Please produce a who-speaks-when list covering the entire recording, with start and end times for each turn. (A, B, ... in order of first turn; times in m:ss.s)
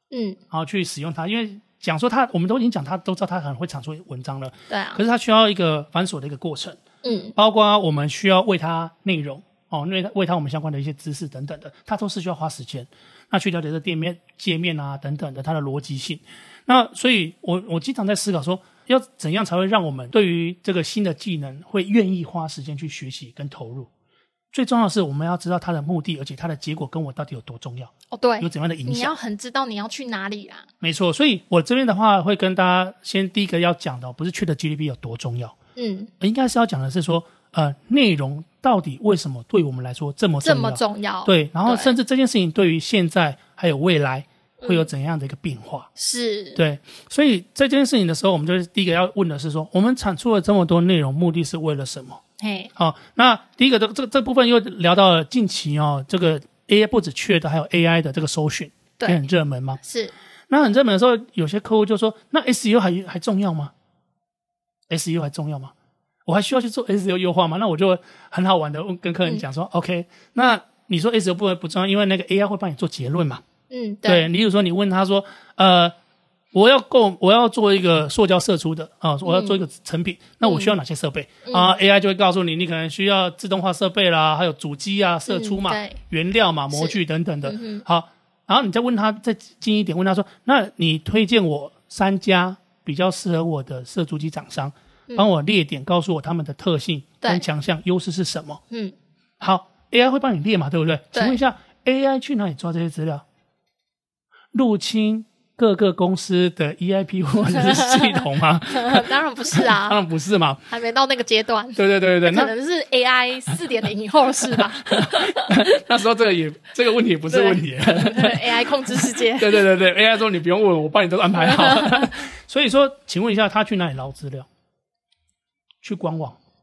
0:00.1-0:00.4 A
0:00.5-0:06.8 B
0:04.7-0:05.0 A
0:07.0-0:07.3 A
0:07.4-0:23.9 B
0:24.5-0:29.1 B
0:28.1-0:30.7 A
0:30.8-0:35.6 B
0:35.8-0:36.1 A
0:36.2-0:45.9 B
0:40.4-0:41.9 A
0:44.6-0:44.9 A
0:46.0-0:46.6 A
0:46.6-0:52.2 B
0:52.4-0:52.7 A
0:52.8-0:59.8 B
0:59.8-1:00.1 A
1:00.5-1:03.7 B
1:04.9-1:05.7 B
1:06.3-1:13.4 B
1:13.7-1:14.3 A
1:14.1-1:15.9 B
1:16.5-1:38.6 B
1:19.2-1:19.6 A
1:20.4-1:20.7 A
1:21.5-1:21.8 A
1:25.3-1:26.0 A
1:26.7-1:27.8 A
1:39.4-1:43.2 B
1:44.5-1:50.6 B
1:47.6-1:48.2 A
1:48.7-1:50.0 A
1:50.7-1:55.7 A
1:51.8-1:52.5 B
1:54.5-2:04.5 B
1:57.3-1:59.7 A
2:01.4-2:02.1 A
2:05.8-2:06.4 B